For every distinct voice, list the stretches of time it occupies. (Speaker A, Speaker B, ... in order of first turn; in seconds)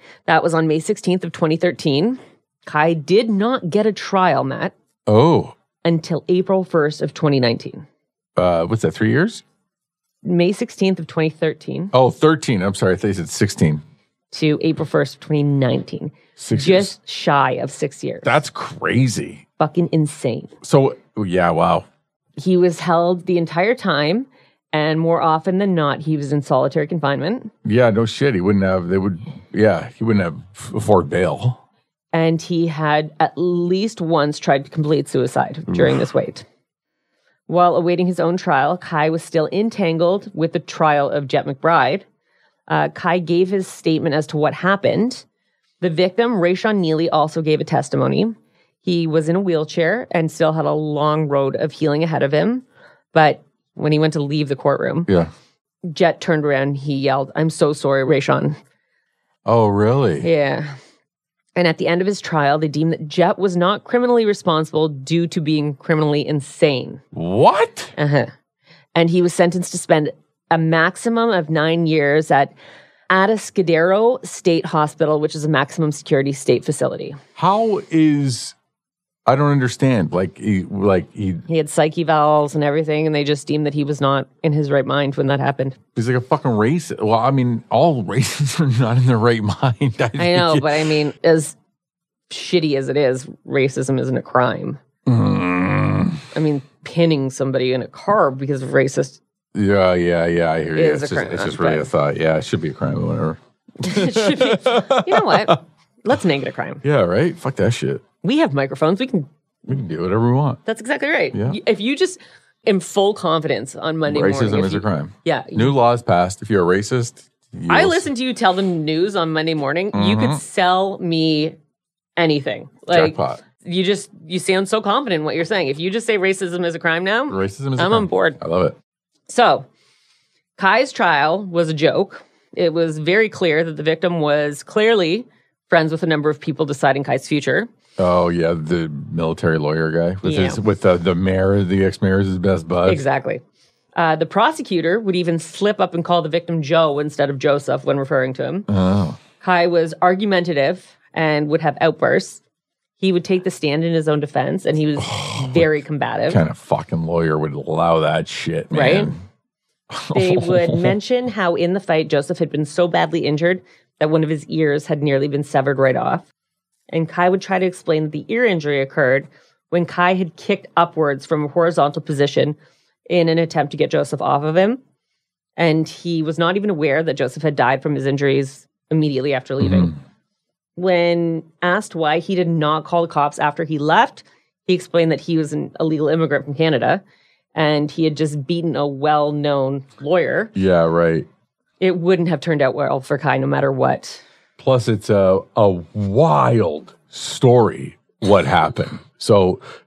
Speaker A: 0.3-4.7, 5.8-7.8, 10.2-11.9, 14.3-18.4, 19.6-20.5, 22.4-27.5, 32.1-36.5, 37.5-42.0, 42.7-45.2, 45.8-55.1, 55.8-58.6, 60.2-60.7, 61.6-67.0, 68.0-68.3, 69.0-72.5, 73.1-77.2, 81.5-85.8, 90.2-91.6, 92.3-94.8, 96.3-99.2, 100.8-101.9, 103.8-106.8, 108.2-109.3, 110.7-115.8, 117.7-121.6, 122.2-128.4, 129.3-129.7, 130.6-137.7, 140.2-140.6, 142.9-143.4, 144.0-148.7, 149.4-152.4, 153.0-156.4, 158.7-159.1, 160.1-166.3, 166.9-172.6, 173.1-174.8, 175.6-180.0, 180.8-187.0, 187.6-190.5, 191.8-194.2
Speaker B: 5.1-5.5, 8.4-9.4, 11.9-13.8, 16.4-16.9, 18.2-19.4, 20.6-21.9, 27.6-31.6, 59.5-60.3, 67.1-67.9, 77.4-78.5, 79.3-81.5, 86.0-90.7, 95.1-96.3, 99.5-105.6, 106.8-108.0, 109.7-110.6, 111.3-111.6, 114.1-118.1, 119.9-120.4, 122.9-123.4, 127.3-128.8, 138.0-143.0, 148.7-149.2, 155.0-159.2, 159.9-160.9, 179.6-179.9, 190.6-191.3, 194.6-199.6